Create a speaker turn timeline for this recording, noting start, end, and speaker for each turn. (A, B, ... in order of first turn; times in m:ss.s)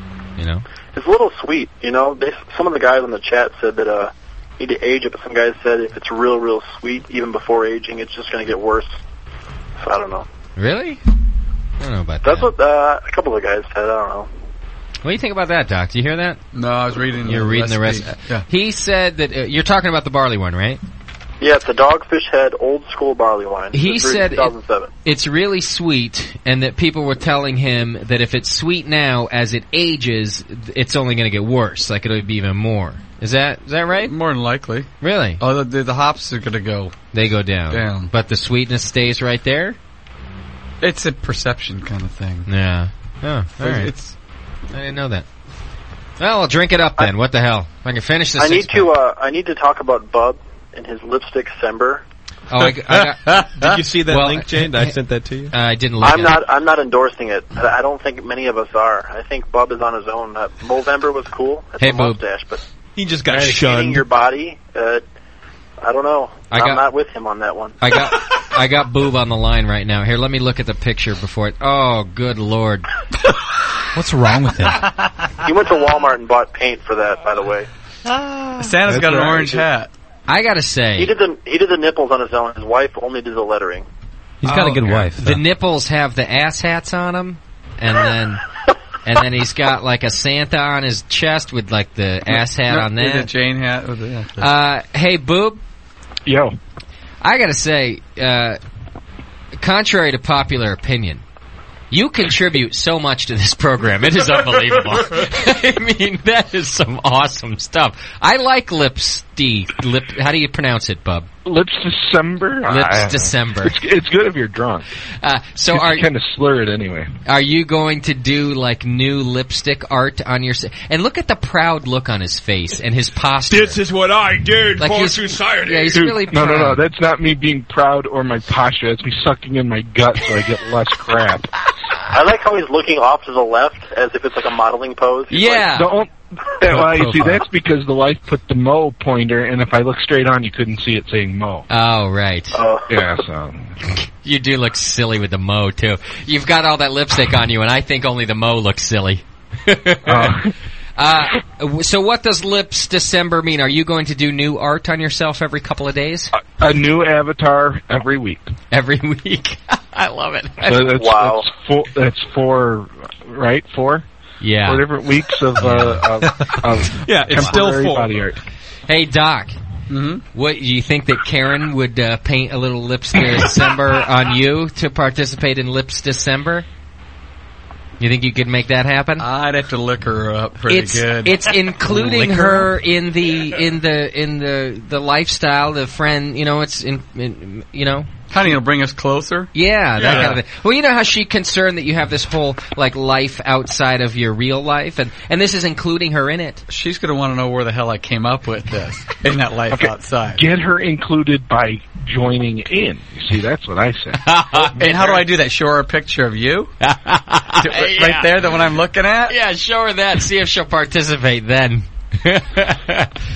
0:00.4-0:00.6 A
0:00.9-0:09.0 B
0:09.8-0:10.3 B
0:10.6-0:11.0 A
0:11.8-0:12.5 A
0:12.2-0:14.3 B
0:15.0-0:16.4 A
0:16.5-0:18.5 C
0:17.3-0:20.8 A
0:21.4-0:24.9 B
0:23.7-0:24.5 A
0:25.0-0:34.1 A
0:34.0-0:37.0 C
0:35.0-0:35.4 A
0:37.1-0:39.8 A
0:37.7-0:38.1 C
0:40.8-0:42.5 C
0:42.5-0:43.9 A
0:43.6-0:44.1 C
0:44.7-0:45.3 A
0:46.2-0:48.9 A
0:48.4-0:52.0 B
0:52.5-0:55.0 A
0:53.6-0:55.5 D
0:55.5-0:56.4 A
0:56.0-1:02.6 B
1:01.8-1:02.2 A
1:03.0-1:04.1 D
1:03.3-1:03.7 E
1:03.4-1:05.0 B
1:05.8-1:07.8 B
1:06.5-1:06.8 A
1:07.8-1:12.9 A
1:13.9-1:15.1 F
1:15.4-1:17.7 B
1:18.6-1:19.9 C
1:18.9-1:19.5 D
1:20.3-1:21.1 A
1:21.0-1:23.9 B
1:24.4-1:25.4 F
1:24.4-1:28.4 A
1:29.0-1:33.3 A
1:32.3-1:34.4 C
1:34.4-1:35.6 A
1:36.3-1:36.6 E
1:37.2-1:38.6 A
1:39.6-1:41.2 A
1:41.9-1:51.3 A
1:51.5-1:54.8 E
1:52.7-1:53.8 A
1:55.2-1:56.1 A
1:55.7-1:57.1 E
1:57.2-2:03.8 A
2:03.5-2:06.1 D
2:04.8-2:06.8 A
2:05.9-2:11.5 E
2:12.1-2:15.7 B
2:15.3-2:15.9 A
2:15.8-2:21.7 E
2:16.8-2:17.4 F
2:21.7-2:22.6 A
2:22.5-2:22.9 B
2:22.9-2:23.7 E
2:24.2-2:30.4 A
2:30.0-2:30.5 E
2:31.0-2:36.3 A
2:36.4-2:38.5 E
2:38.7-2:41.0 A
2:40.6-2:44.0 E
2:41.0-2:41.5 B
2:44.4-2:44.9 A
2:44.6-2:48.4 E
2:45.6-2:46.0 A
2:47.0-2:48.1 D
2:47.3-2:47.8 C
2:48.9-2:49.6 A
2:49.9-2:50.2 C
2:50.3-2:56.7 A
2:58.0-2:59.3 A
2:59.2-3:02.7 C
3:00.7-3:08.1 A
3:08.3-3:10.4 C
3:09.6-3:16.6 A
3:16.7-3:20.4 C
3:19.7-3:24.2 E
3:24.2-3:25.2 A
3:24.7-3:26.7 C
3:26.8-3:28.5 A
3:27.6-3:29.4 C
3:29.3-3:33.1 A